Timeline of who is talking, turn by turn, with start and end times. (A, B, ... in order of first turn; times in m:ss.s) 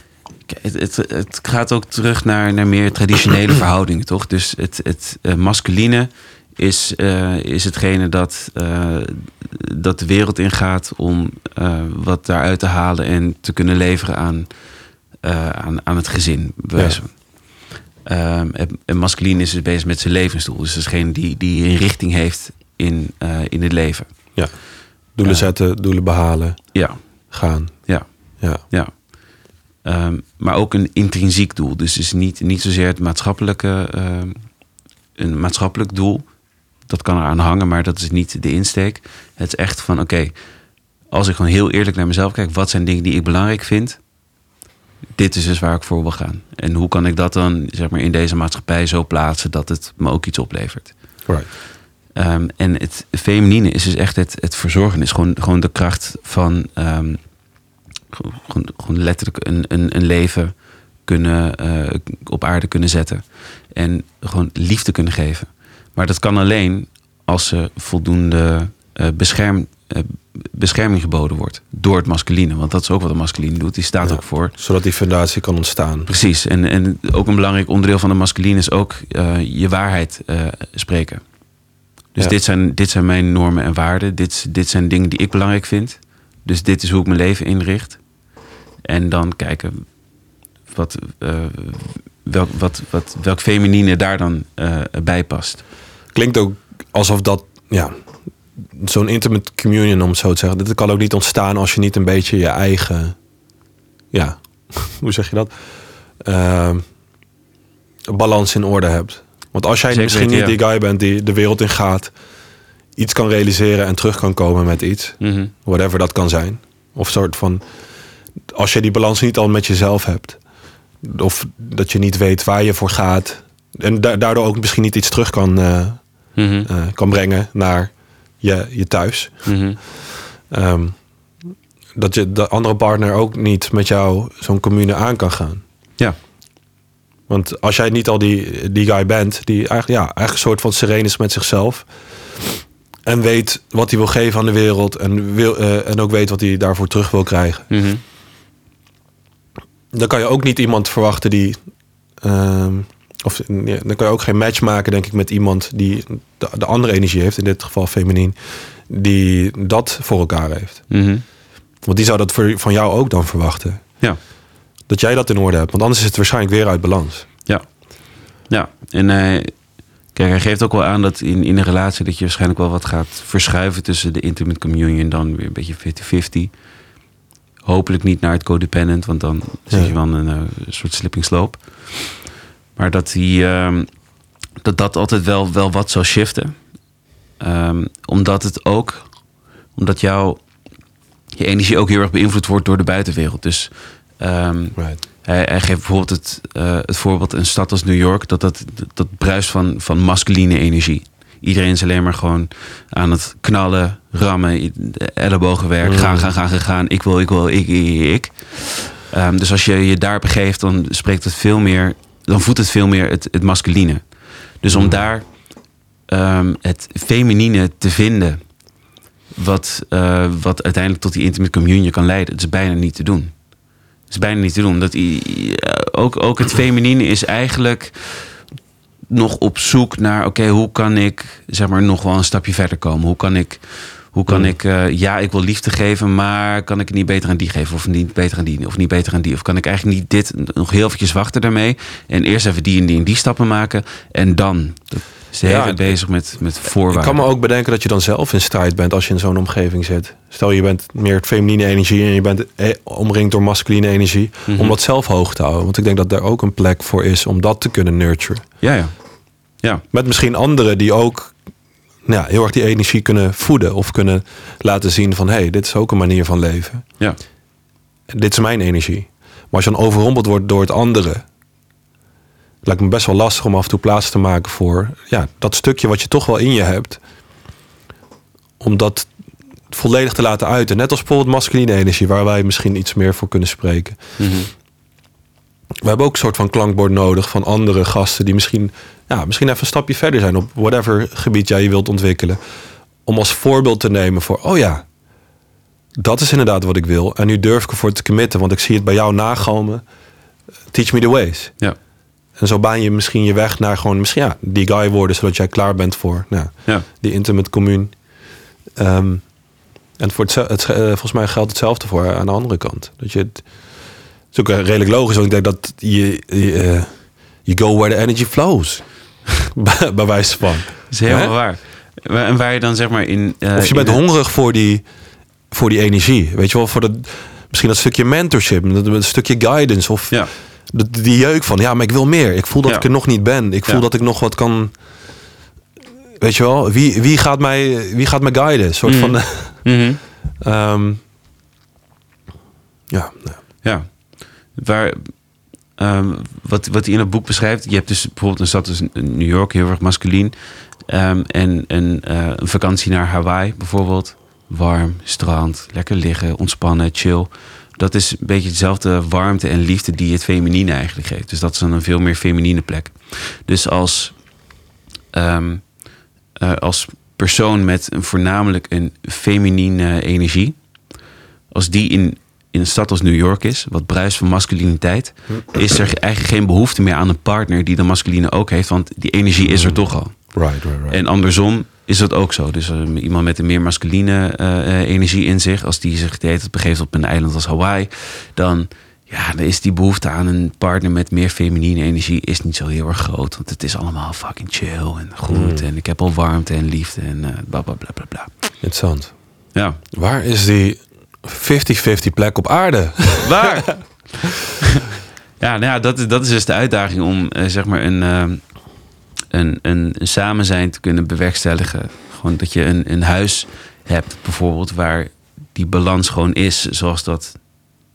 0:00.5-0:14.5 A
0:15.2-0:17.2 A
0:18.1-0:24.1 A
0:25.2-0:26.6 B
0:27.3-0:27.8 B
0:28.7-0:29.0 A
0:29.8-0:34.4 A
0:35.2-0:36.3 A
0:36.9-0:40.3 A
0:41.1-0:44.0 A
0:45.2-0:50.9 A
0:52.2-0:57.2 A
0:58.1-1:00.5 A
1:01.0-1:14.5 A
1:14.0-1:16.1 B
1:16.1-1:21.2 A
1:22.2-1:28.0 A
1:28.9-1:29.8 A
1:30.7-1:35.6 A
1:36.1-1:37.9 B
1:38.8-1:43.2 B
1:44.1-1:45.5 B
1:46.2-1:46.8 B
1:48.1-1:52.1 B
1:49.9-1:50.6 A
1:53.0-1:57.6 B
1:55.2-1:55.5 A
1:58.5-2:00.4 B
2:01.0-2:06.0 B
2:06.4-2:06.7 A
2:06.7-2:09.5 B
2:09.5-2:09.8 A
2:10.5-2:11.0 B
2:12.0-2:15.6 B
2:17.3-2:21.9 B
2:23.0-2:27.7 B
2:27.7-2:28.0 A
2:29.9-2:31.6 B
2:32.2-2:38.4 B
2:38.9-2:40.8 B
2:40.9-2:41.2 A
2:41.8-2:43.8 B
2:44.9-2:47.3 B
2:48.5-2:49.5 A
2:50.2-2:56.5 A
2:57.6-3:02.2 A
3:02.8-3:03.9 A
3:04.6-3:06.5 A
3:07.4-3:09.1 A
3:09.8-3:10.4 A
3:11.4-3:34.0 A
3:25.8-3:26.3 B
3:34.6-3:35.3 A
3:34.7-3:35.0 B
3:36.1-3:38.4 A
3:39.4-3:43.3 A
3:44.1-3:48.2 A
3:49.1-4:07.2 A
3:54.3-3:54.5 B
4:05.4-4:06.0 B
4:06.9-4:18.4 B
4:14.5-4:14.8 A
4:18.6-4:18.9 A
4:19.9-4:21.3 B
4:22.1-4:26.8 B
4:28.1-4:31.2 B
4:32.6-4:37.0 B
4:38.6-4:39.1 B
4:39.7-4:44.0 B
4:44.2-4:44.5 A
4:45.8-4:52.4 B
4:53.1-4:54.8 B
4:56.0-4:59.8 B
5:00.7-5:01.5 B
5:02.4-5:07.9 B
5:08.8-5:09.2 B
5:10.0-5:13.4 B
5:14.3-5:16.9 B
5:17.4-5:21.3 B
5:20.9-5:24.0 A
5:23.6-5:24.8 B
5:25.5-5:34.7 B
5:36.2-5:39.6 B
5:38.8-5:40.0 A
5:40.4-5:41.0 B
5:42.9-5:43.4 B
5:43.6-5:43.9 A
5:44.6-5:45.1 A
5:45.8-5:50.3 A
5:50.9-6:04.2 A
6:05.1-6:05.7 A
6:06.4-6:10.6 A
6:11.5-6:20.2 A
6:19.4-6:19.8 B
6:20.3-6:21.0 B
6:20.9-6:38.3 A
6:35.3-6:35.6 B
6:38.6-6:39.1 B
6:39.6-6:39.8 A
6:39.9-6:43.7 B
6:43.2-6:43.8 A
6:44.6-6:44.9 A
6:45.4-6:48.4 A
6:49.3-6:57.4 A